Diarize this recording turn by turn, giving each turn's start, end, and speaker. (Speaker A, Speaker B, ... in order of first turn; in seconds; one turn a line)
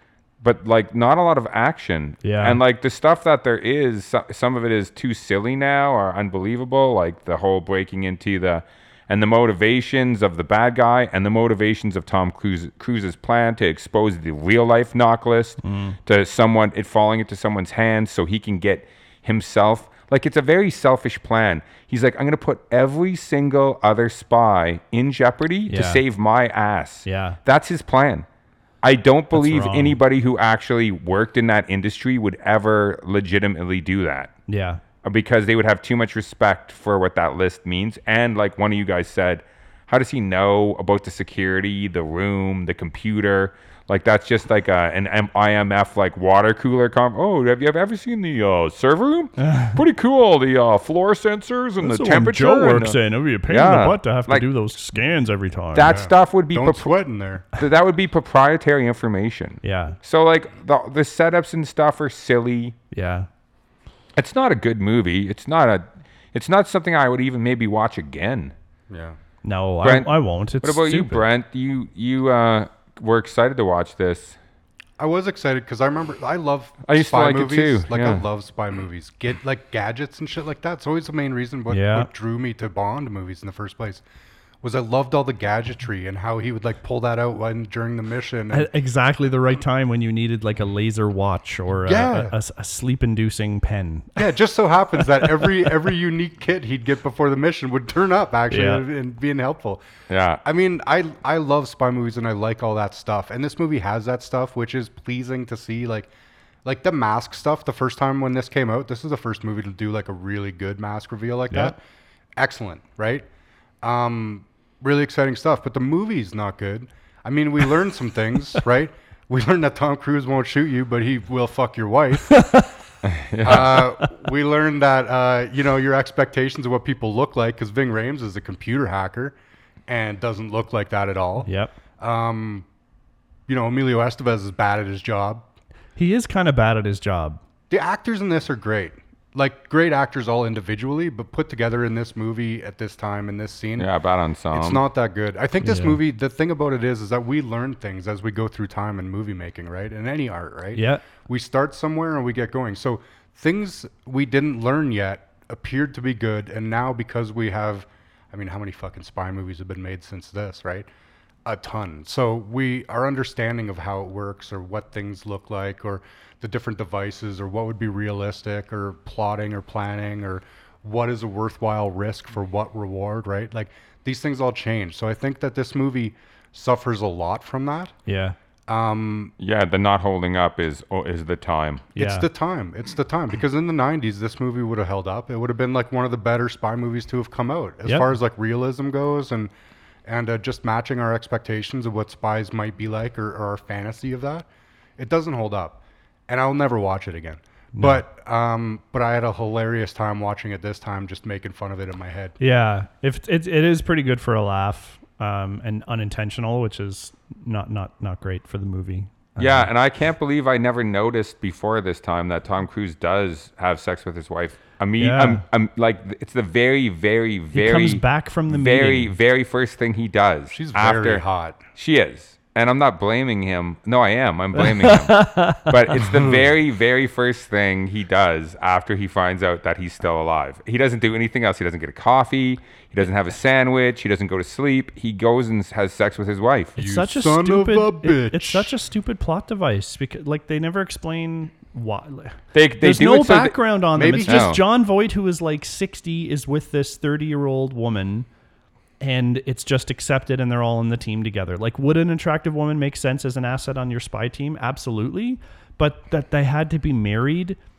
Speaker A: 0.4-28.3
Speaker B: 2.2-2.6
Speaker B: 15.6-16.0
Speaker B: 25.7-26.0
Speaker B: 27.1-27.4
Speaker A: 28.8-34.3
Speaker B: 29.3-30.0
Speaker B: 34.5-34.8
Speaker A: 35.0-54.5
Speaker B: 49.4-49.8
Speaker B: 51.8-55.9
Speaker A: 55.8-56.9
Speaker C: 55.8-57.5
Speaker A: 57.5-62.8
Speaker B: 59.6-60.0
Speaker B: 62.9-63.3
Speaker A: 64.2-68.5
Speaker C: 68.9-69.2
Speaker B: 69.4-71.2
Speaker A: 69.8-74.4
Speaker C: 75.0-84.0
Speaker A: 76.8-78.2
Speaker B: 81.7-82.1
Speaker C: 84.6-88.7
Speaker B: 88.5-94.4
Speaker C: 91.9-92.3
Speaker C: 94.2-99.8
Speaker B: 95.0-95.6
Speaker B: 98.5-98.8
Speaker A: 100.1-100.4
Speaker C: 100.4-106.1
Speaker C: 106.7-111.8
Speaker C: 112.4-113.2
Speaker C: 113.8-122.4
Speaker B: 122.3-122.7
Speaker A: 123.0-123.9
Speaker C: 123.4-129.3
Speaker B: 123.5-124.1
Speaker C: 129.9-132.7
Speaker B: 131.4-131.7
Speaker C: 133.5-135.4
Speaker B: 136.0-137.4
Speaker C: 137.7-143.9
Speaker A: 143.8-144.8
Speaker C: 144.5-160.9
Speaker B: 145.6-146.0
Speaker B: 150.8-151.0
Speaker C: 161.4-177.9
Speaker B: 178.1-178.4
Speaker C: 178.7-179.3
Speaker A: 179.4-181.9
Speaker B: 182.0-182.3
Speaker C: 182.0-189.5
Speaker B: 187.8-188.1
Speaker C: 190.1-194.4
Speaker C: 195.0-202.4
Speaker B: 197.8-198.0
Speaker B: 202.4-209.7
Speaker A: 209.4-221.2
Speaker B: 215.0-215.4
Speaker B: 217.5-219.1
Speaker C: 220.5-221.6
Speaker A: 221.8-236.8
Speaker B: 224.6-225.8
Speaker C: 226.0-226.5
Speaker B: 236.8-248.3
Speaker C: 236.8-238.8
Speaker A: 242.5-243.6
Speaker C: 244.0-244.5
Speaker A: 244.2-244.6
Speaker B: 249.0-257.6